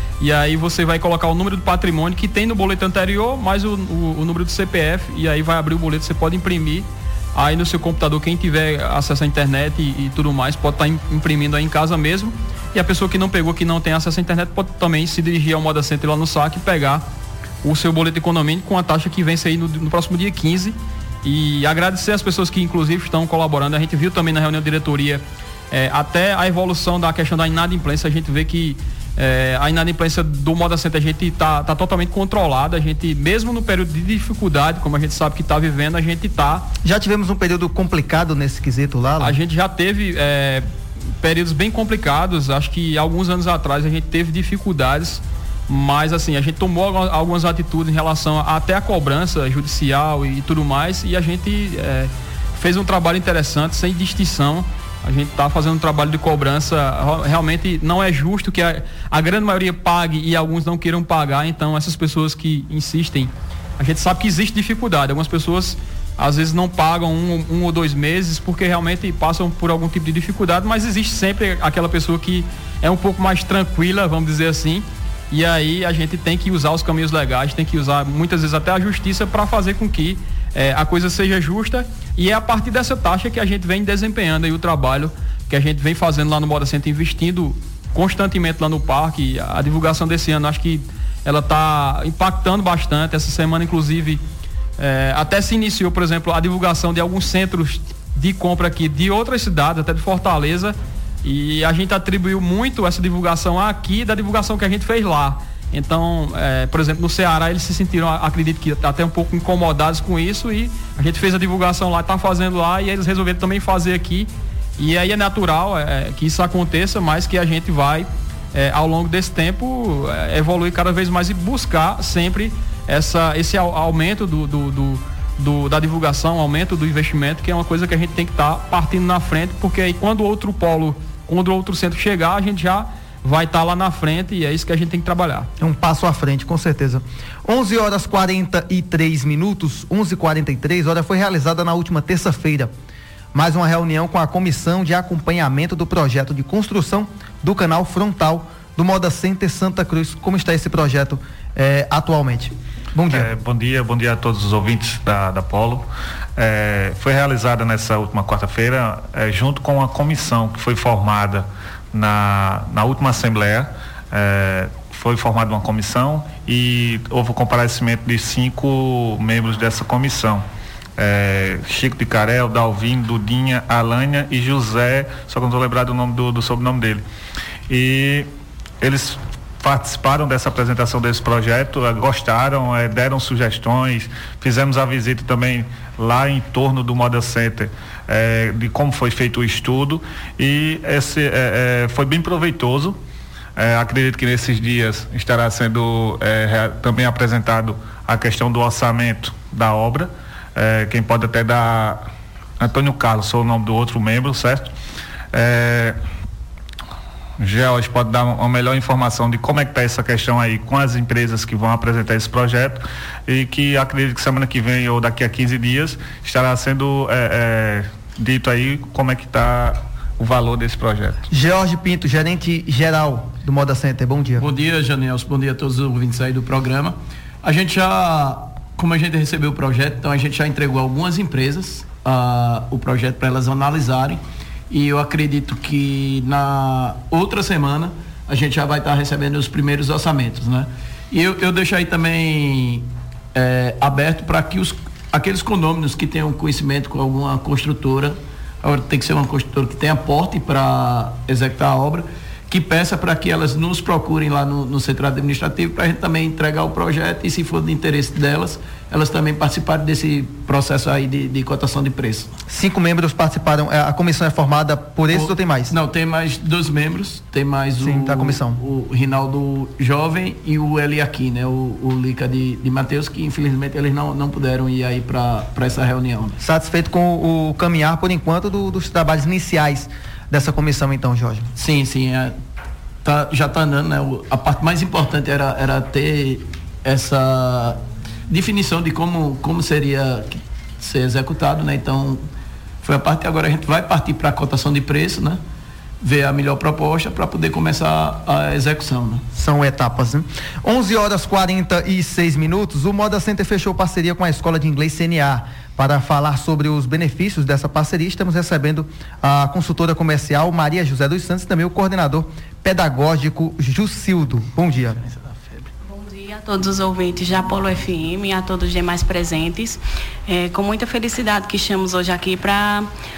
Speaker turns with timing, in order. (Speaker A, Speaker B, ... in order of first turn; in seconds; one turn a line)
Speaker A: 0.2-17.0
Speaker A: 17.6-36.7
Speaker B: 36.8-39.4
Speaker A: 39.2-40.7
Speaker A: 41.2-94.2
Speaker A: 94.8-135.5
Speaker B: 135.6-142.7
Speaker B: 143.3-153.3
Speaker C: 153.1-170.4
Speaker C: 171.0-177.0
Speaker C: 177.7-178.3
Speaker C: 178.8-193.0
Speaker C: 193.6-202.1
Speaker C: 202.6-204.7
Speaker C: 205.3-206.0
Speaker C: 207.4-221.2
Speaker B: 221.3-224.5
Speaker D: 224.4-262.3
Speaker B: 262.5-265.8
Speaker D: 265.1-276.4
Speaker B: 267.8-268.6
Speaker B: 276.4-281.5
Speaker D: 281.6-282.4
Speaker D: 283.0-292.2
Speaker D: 292.8-295.4
Speaker D: 296.0-299.2
Speaker B: 299.4-315.0
Speaker D: 315.1-315.7
Speaker E: 315.9-322.9